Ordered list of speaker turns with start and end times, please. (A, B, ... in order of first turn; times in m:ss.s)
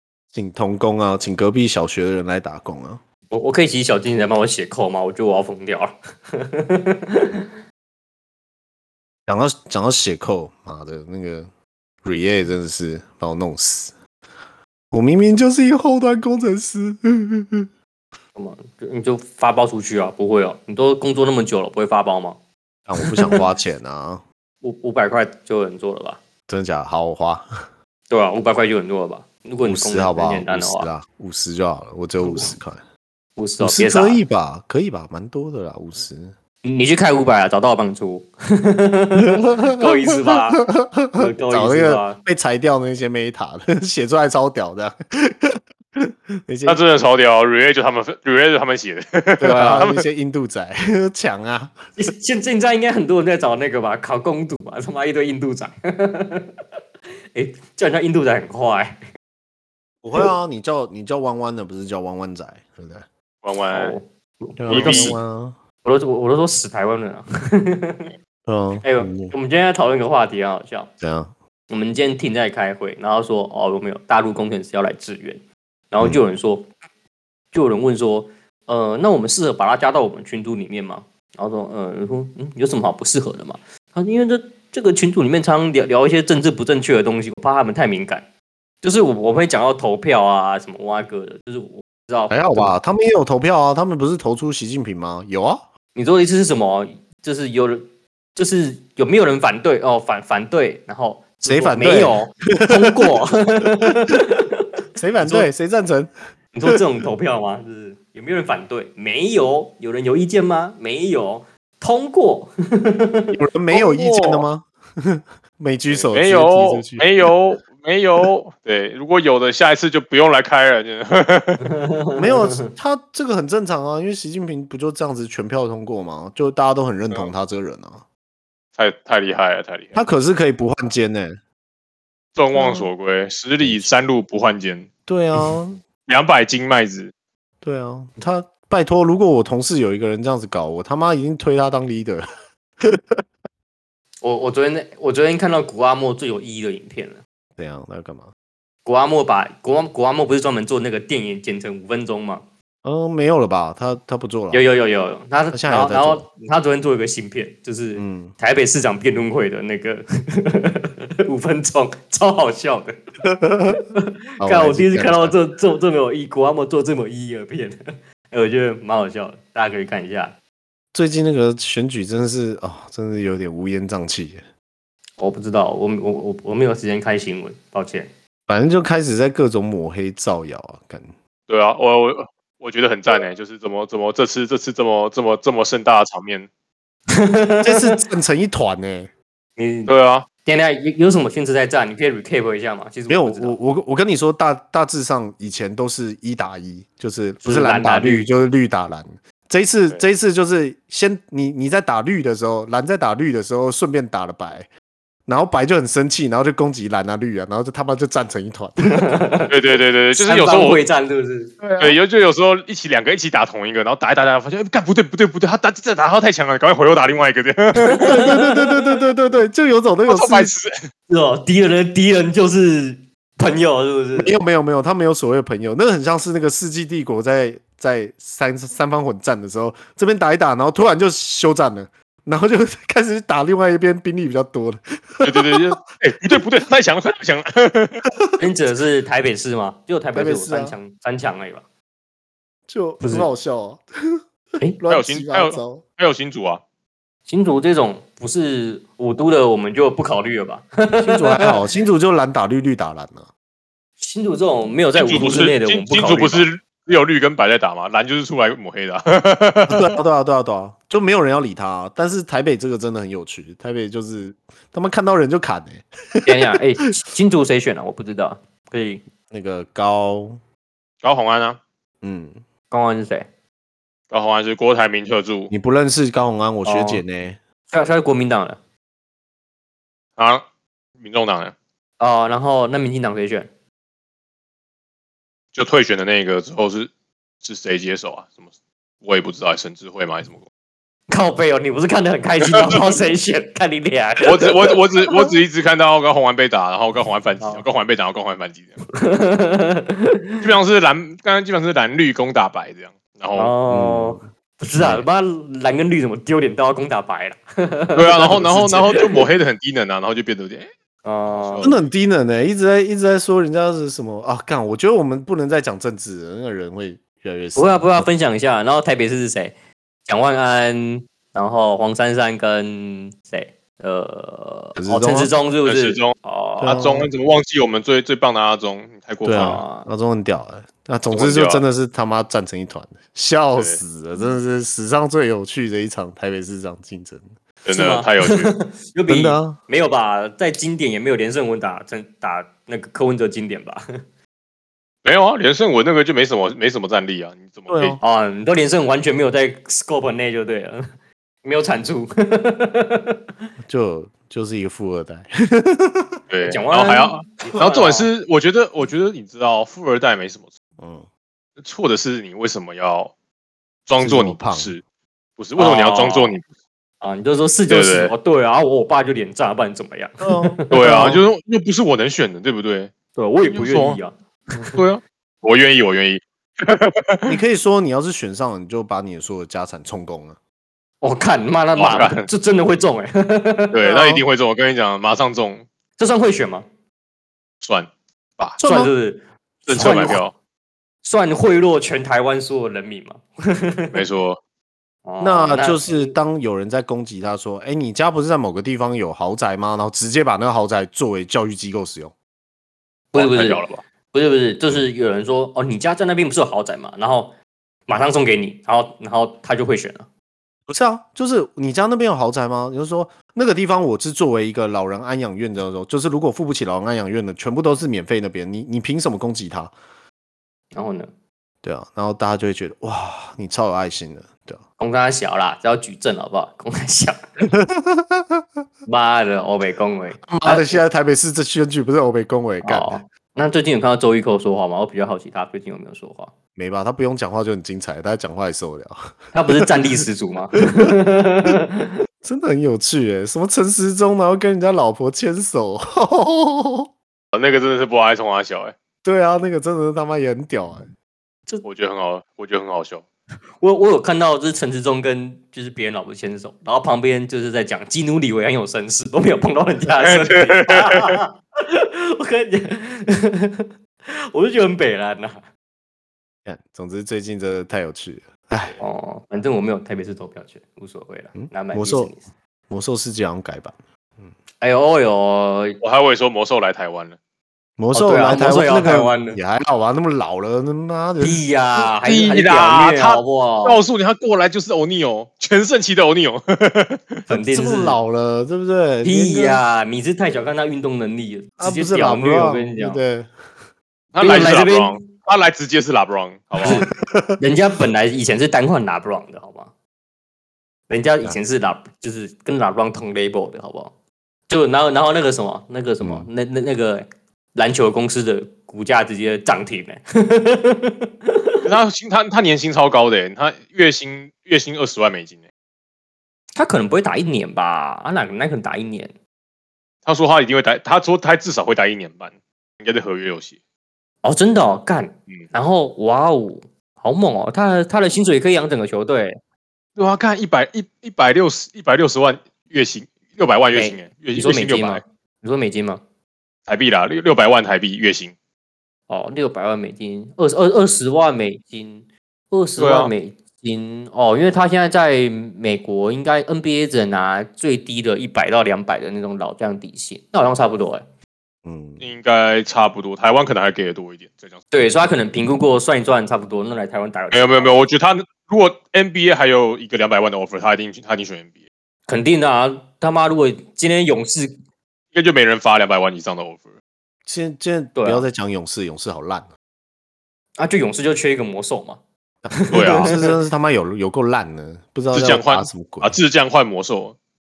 0:00.3-0:03.0 A
0:03.3-0:07.5 B
0:09.3-0:11.5 A
0:12.0-0:13.9 A
0:14.9-0:17.7 A
0:18.3-0:22.4 B
0:22.9-0:24.2 A
0:23.0-0:23.4 B
0:24.6-0:26.2 B
0:26.5-0:27.5 A
0:28.1-0:30.9 B
0:29.6-0:32.8 A
0:32.2-0:32.5 B
0:33.4-0:34.2 B
0:33.6-0:36.3 A
0:36.6-0:42.2 B
0:39.3-0:46.8 A
0:46.6-0:50.0 C
0:49.4-0:51.8 A
0:49.5-0:49.8 B
0:52.0-0:56.5 B
0:57.3-0:59.0 B
1:00.0-1:03.0 A
1:03.4-1:04.0 C
1:03.7-1:05.2 B
1:04.6-1:05.6 A
1:04.7-1:05.2 C
1:05.8-1:08.1 B
1:08.4-1:09.3 A
1:08.8-1:10.9 B
1:11.0-1:11.3 A
1:11.7-1:16.7 B
1:17.5-1:28.2 B
1:28.8-1:32.8 B
1:32.3-1:35.6 A
1:35.9-1:44.6 B
1:41.4-1:43.1 A
1:45.0-1:46.1 A
1:45.2-1:45.5 B
1:46.5-1:53.3 B
1:53.3-1:57.3 A
1:53.7-1:54.4 C
1:55.9-2:01.6 C
2:01.6-2:02.7 B
2:02.2-2:08.0 A
2:08.8-2:10.0 C
2:09.9-2:11.4 A
2:12.4-2:14.9 C
2:12.6-2:12.8 A
2:13.6-2:13.9 A
2:15.1-2:15.8 A
2:16.1-2:17.1 C
2:17.6-2:22.2 A
2:22.8-2:23.2 A
2:24.2-2:27.2 B
2:27.6-2:28.3 A
2:28.8-2:32.4 B
2:32.8-2:34.6 A
2:34.5-2:43.0 B
2:35.5-2:36.2 A
2:37.9-2:38.3 A
2:43.2-2:43.8 A
2:43.7-2:47.8 B
2:44.4-2:45.4 A
2:48.3-2:50.4 B
2:50.9-2:54.4 A
2:55.2-2:58.1 B
2:58.5-3:01.1 A
3:01.5-3:06.5 C
3:07.1-3:08.0 B
3:07.6-3:09.1 A
3:09.6-3:09.9 B
3:09.9-3:10.2 C
3:10.4-3:13.6 B
3:13.1-3:24.7 A
3:17.4-3:18.3 B
3:25.2-3:29.1 A
3:28.8-3:29.5 B
3:29.5-3:30.8 C
3:30.1-3:31.6 B
3:31.6-3:32.0 A
3:31.8-3:38.2 C
3:37.8-3:38.5 B
3:38.0-3:40.5 A
3:40.1-3:40.7 C
3:41.1-3:44.3 B
3:44.2-3:55.6 A
3:55.2-3:58.0 C
3:58.4-4:01.6 B
4:00.1-4:00.8 A
4:02.7-4:03.8 A
4:03.0-4:03.3 B
4:04.8-4:05.8 A
4:04.9-4:06.6 C
4:07.3-4:11.6 B
4:11.0-4:13.3 A
4:14.0-4:16.5 B
4:15.0-4:19.9 C
4:19.7-4:26.5 A
4:26.2-4:29.0 B
4:29.3-4:30.4 A
4:31.0-4:31.6 C
4:32.0-4:32.4 A
4:32.7-4:33.2 B
4:34.1-4:35.5 C
4:35.5-4:37.4 A
4:36.6-4:37.0 B
4:37.7-4:38.6 B
4:40.2-4:40.4 C
4:41.0-4:41.5 C
4:42.0-4:43.5 B
4:45.5-4:46.9 C
4:47.4-4:48.4 C
4:49.0-4:50.4 C
4:51.1-4:54.7 B
4:52.5-4:53.0 C
4:54.2-4:58.8 C
4:57.4-4:57.6 B
4:58.9-5:00.4 B
5:00.4-5:03.5 C
5:03.3-5:09.2 B
5:03.7-5:04.2 A
5:04.8-5:05.0 A
5:07.9-5:10.7 C
5:11.0-5:11.7 B
5:11.2-5:11.8 C
5:11.6-5:18.1 A
5:17.5-5:19.5 B
5:20.0-5:26.8 B
5:24.8-5:25.3 A
5:25.6-5:29.6 C
5:26.6-5:27.1 A
5:29.2-5:37.3 A
5:29.3-5:29.9 B
5:31.1-5:31.6 C
5:37.6-5:38.5 C
5:37.7-5:43.8 B
5:39.1-5:39.6 A
5:45.0-5:48.0 C
5:47.7-5:48.0 A
5:48.0-5:50.8 B
5:51.4-5:53.2 B
5:53.6-5:56.2 A
5:56.3-6:00.5 C
5:56.4-5:58.1 B
6:00.8-6:01.1 A
6:01.6-6:03.1 C
6:03.9-6:04.8 C
6:04.0-6:04.7 A
6:05.4-6:06.4 C
6:05.6-6:06.4 B
6:07.0-6:10.8 B
6:07.7-6:08.1 C
6:10.2-6:11.2 A
6:10.7-6:14.0 C
6:13.1-6:14.8 B
6:14.7-6:17.4 C
6:17.3-6:20.4 A
6:21.0-6:23.8 B
6:21.8-6:22.3 C
6:23.7-6:25.6 C
6:23.8-6:24.2 A
6:26.0-6:26.7 B
6:27.6-6:28.6 C
6:28.6-6:28.9 A
6:28.6-6:30.2 B
6:29.7-6:30.3 C
6:29.8-6:30.2 A
6:31.0-6:34.0 B
6:33.9-6:34.4 C
6:35.0-6:36.2 B
6:35.2-6:42.1 A
6:43.1-6:47.3 B
6:43.1-6:43.8 C
6:47.9-6:50.1 B
6:50.7-6:59.7 A
7:00.7-7:01.1 B
7:01.6-7:04.6 A
7:04.8-7:07.4 B
7:07.5-7:08.4 A
7:08.8-7:10.8 B
7:10.3-7:13.0 A
7:12.6-7:16.3 B
7:16.6-7:19.6 A
7:19.3-7:21.9 B
7:20.6-7:20.9 A
7:22.2-7:26.9 A
7:27.3-7:28.7 C
7:29.0-7:30.9 A
7:31.6-7:33.0 C
7:33.6-7:43.7 B
7:40.0-7:41.2 C
7:44.3-7:45.4 B
7:46.4-7:48.8 A
7:48.8-7:52.3 B
7:51.3-7:52.1 A
7:52.7-7:54.3 A
7:54.6-7:55.8 B
7:55.8-7:57.2 C
7:57.8-8:01.4 A
7:57.9-7:59.4 B
8:01.2-8:03.8 B
8:02.0-8:07.2 C
8:07.3-8:08.0 B
8:07.3-8:09.6 A
8:09.0-8:13.0 B
8:11.6-8:13.3 A
8:14.1-8:16.8 C
8:14.2-8:15.1 B
8:16.6-8:19.7 B
8:16.6-8:17.4 A
8:20.9-8:23.9 B
8:24.5-8:31.6 B
8:26.0-8:26.3 A
8:31.6-8:35.4 C
8:36.6-8:39.1 B
8:40.0-8:43.6 C
8:44.2-8:49.4 B
8:50.0-8:55.0 C
8:53.7-8:56.0 B
8:56.7-8:58.3 C
8:59.1-9:11.0 B
9:02.8-9:03.1 C
9:11.6-9:12.0 A
9:12.0-9:14.6 C
9:14.7-9:17.8 B
9:17.3-9:21.6 C
9:22.1-9:24.6 B
9:25.1-9:26.7 C
9:27.2-9:29.5 A
9:27.9-9:28.3 B
9:30.6-9:32.0 B
9:32.4-9:36.2 A
9:32.6-9:33.4 B
9:32.7-9:33.1 C
9:35.1-9:37.2 C